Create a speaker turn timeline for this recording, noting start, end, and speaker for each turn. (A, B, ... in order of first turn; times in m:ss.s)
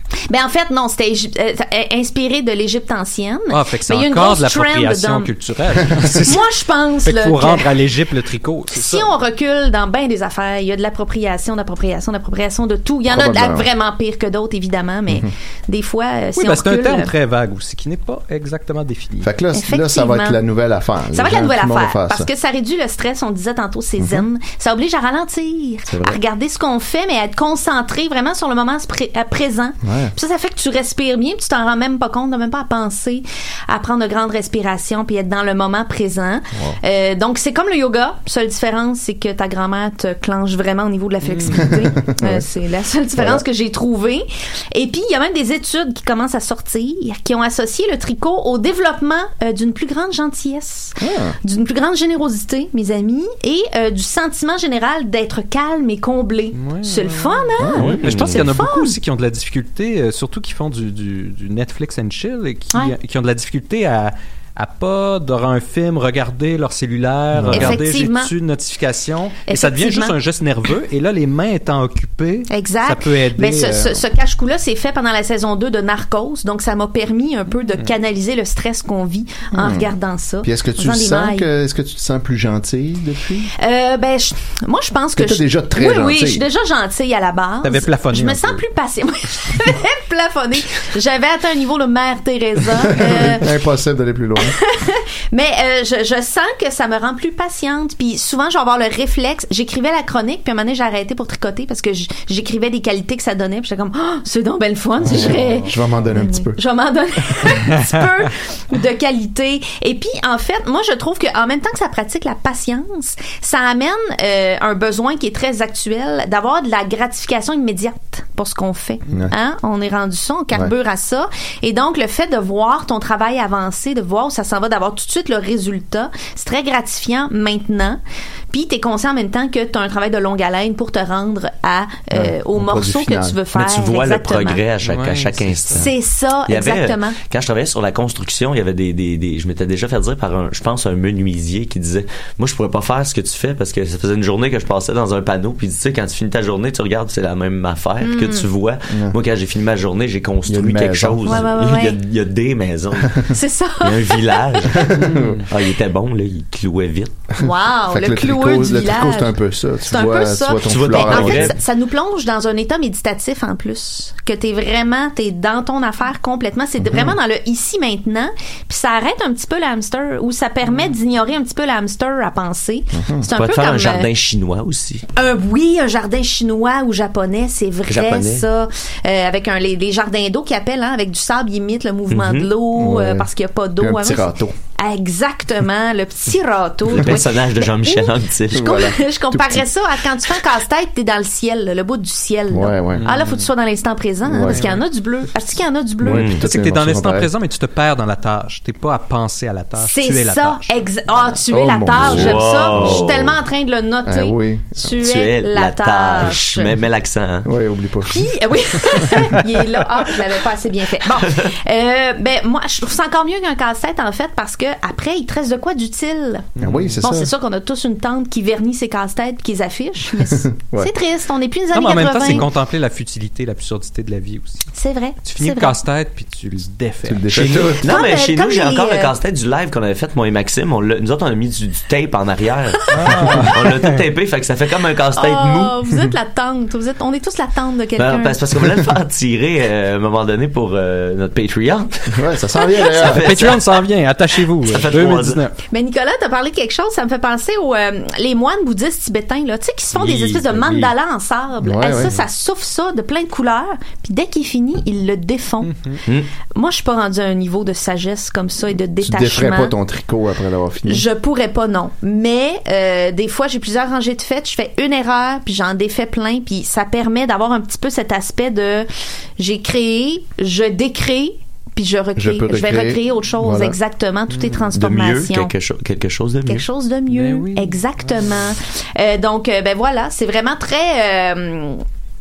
0:00.3-0:05.3 A
0:03.5-0:06.5 B
0:06.3-0:07.7 A
0:07.0-0:09.1 B
0:08.7-0:17.1 A
0:13.1-0:13.7 C
0:16.4-0:19.3 B
0:19.2-0:22.3 C
0:19.5-0:20.4 A
0:21.1-0:59.0 A
0:24.0-0:24.3 C
0:25.9-0:26.2 C
0:29.8-0:30.1 C
0:41.3-0:41.6 B
0:41.5-0:42.4 C
0:43.2-0:43.4 C
0:51.0-0:51.4 C
0:56.6-1:14.0 B
0:57.6-0:58.2 C
0:57.8-0:58.4 D
1:07.3-1:07.8 C
1:07.5-1:08.3 A
1:09.5-1:10.2 A
1:12.5-1:21.5 A
1:19.6-1:23.5 C
1:23.6-1:33.5 A
1:25.2-1:26.4 C
1:27.6-1:28.6 B
1:32.9-1:34.6 C
1:34.4-2:08.0 A
1:45.0-1:45.6 B
1:45.1-1:46.6 C
2:08.5-2:14.6 A
2:12.1-2:13.4 C
2:13.5-2:15.9 D
2:14.8-2:15.9 B
2:15.8-2:17.2 A
2:16.5-2:33.3 D
2:28.0-2:28.5 A
2:28.9-2:29.2 C
2:30.5-2:31.5 C
2:31.2-2:32.0 A
2:33.3-2:34.7 A
2:33.8-2:35.0 D
2:34.7-2:35.4 C
2:35.0-2:35.4 B
2:35.5-2:37.2 D
2:37.4-2:39.4 A
2:37.4-2:41.6 C
2:39.9-2:54.1 A
2:40.7-2:41.6 D
2:46.8-2:47.2 C
2:52.9-2:53.3 C
2:53.4-2:55.0 D
2:55.2-3:16.3 A
2:57.9-2:58.5 D
3:02.1-3:02.5 D
3:02.8-3:04.6 C
3:06.9-3:08.7 D
3:08.5-3:09.7 C
3:12.5-3:13.1 C
3:12.9-3:13.5 B
3:14.3-3:14.6 C
3:14.5-3:14.8 B
3:16.0-3:17.3 C
3:16.1-3:16.4 D
3:16.4-3:20.7 B
3:19.8-3:26.7 A
3:21.5-3:23.4 C
3:22.0-3:23.3 D
3:24.0-3:24.8 C
3:24.9-3:27.5 D
3:27.4-3:28.3 C
3:28.1-3:36.5 A
3:31.2-3:31.5 D
3:36.6-3:37.0 B
3:36.6-3:37.3 C
3:37.0-3:42.5 A
3:40.3-3:40.9 C
3:41.7-3:44.7 B
3:44.7-3:45.8 A
3:45.3-3:47.7 B
3:47.1-3:47.8 C
3:47.3-3:55.8 D
3:47.8-3:49.1 A
3:52.9-3:54.0 B
3:55.2-3:58.4 A
3:58.0-4:02.2 D
4:02.1-4:03.2 C
4:02.6-4:03.1 A
4:02.8-4:03.6 D
4:03.1-4:05.6 B
4:04.6-4:05.4 D
4:05.7-4:15.7 A
4:10.0-4:10.9 B
4:11.6-4:12.1 C
4:15.6-4:16.0 B
4:16.6-4:19.7 A
4:19.0-4:21.1 C
4:20.9-4:35.5 A
4:32.2-4:33.8 C
4:34.3-4:34.7 B
4:34.7-4:36.6 D
4:36.5-4:41.8 A
4:37.1-4:37.8 B